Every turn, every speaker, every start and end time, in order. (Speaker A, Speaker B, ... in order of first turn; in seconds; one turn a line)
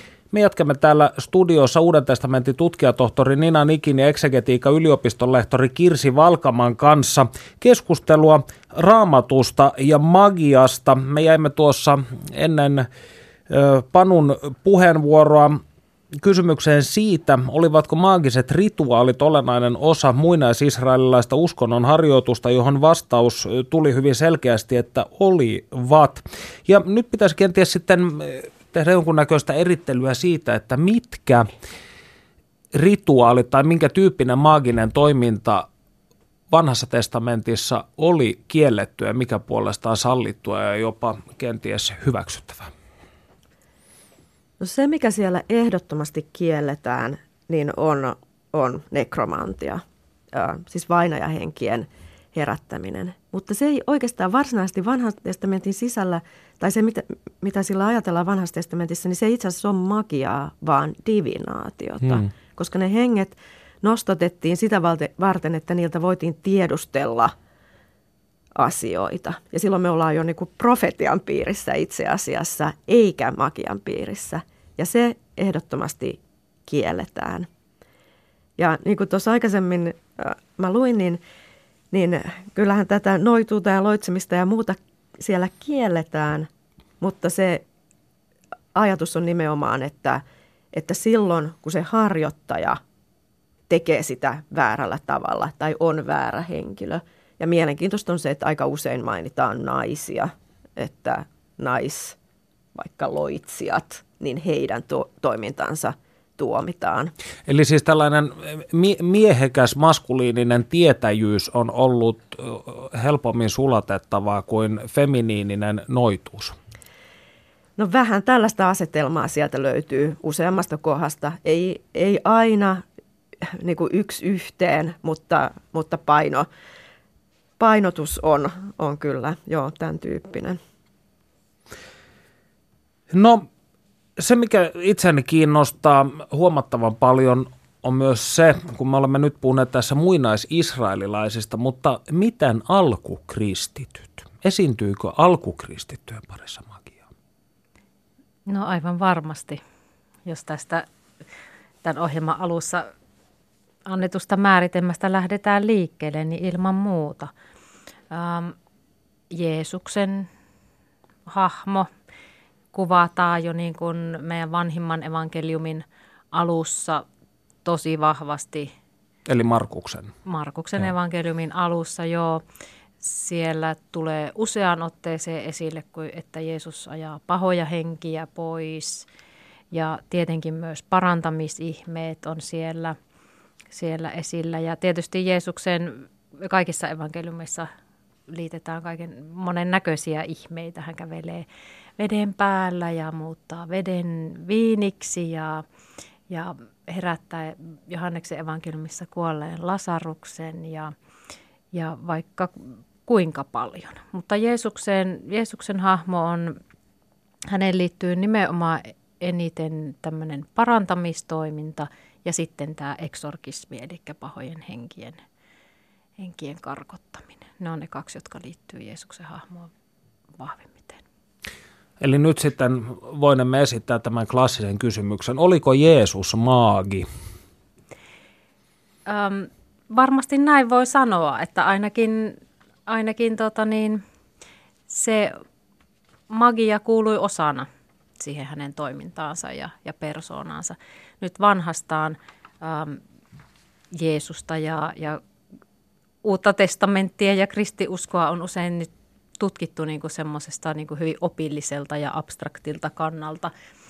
Speaker A: 0.3-12.9
Speaker A: 13.5-15.6
Speaker A: 16.2-31.5
Speaker A: 32.7-35.7
Speaker A: 36.5-42.7
Speaker B: 44.6-67.3
Speaker B: 68.5-77.5
Speaker B: 78.6-81.2
Speaker B: 81.9-86.5
Speaker B: 87.0-87.6
Speaker B: 88.7-92.8
Speaker B: 93.7-102.2
Speaker B: 102.7-107.1
Speaker A: 107.5-116.5
Speaker B: 117.8-122.8
Speaker B: 123.5-126.5
Speaker B: 127.6-130.6
Speaker A: 133.1-133.5
Speaker A: 134.2-147.0
Speaker C: 148.4-149.6
Speaker C: 150.2-150.8
Speaker C: 151.8-152.9
Speaker C: 153.8-157.3
Speaker C: 158.1-158.6
Speaker C: 159.3-160.3
Speaker C: 161.3-161.9
Speaker C: 162.7-167.0
Speaker C: 167.6-168.7
Speaker A: 169.2-170.1
Speaker C: 170.2-172.4
Speaker C: 173.0-179.1
Speaker C: 179.7-182.9
Speaker C: 183.7-187.7
Speaker C: 188.3-191.4
Speaker C: 192.0-195.6
Speaker C: 196.3-200.9
Speaker C: 201.7-206.6
Speaker C: 207.5-215.2
Speaker C: 216.2-219.7
Speaker C: 220.4-221.0
Speaker A: 222.0-227.1
Speaker C: 229.1-234.0
Speaker C: 234.9-235.4
Speaker C: 236.3-237.7
Speaker C: 238.2-243.0
Speaker C: 243.9-245.2
Speaker C: 246.2-248.9
Speaker C: 249.4-253.5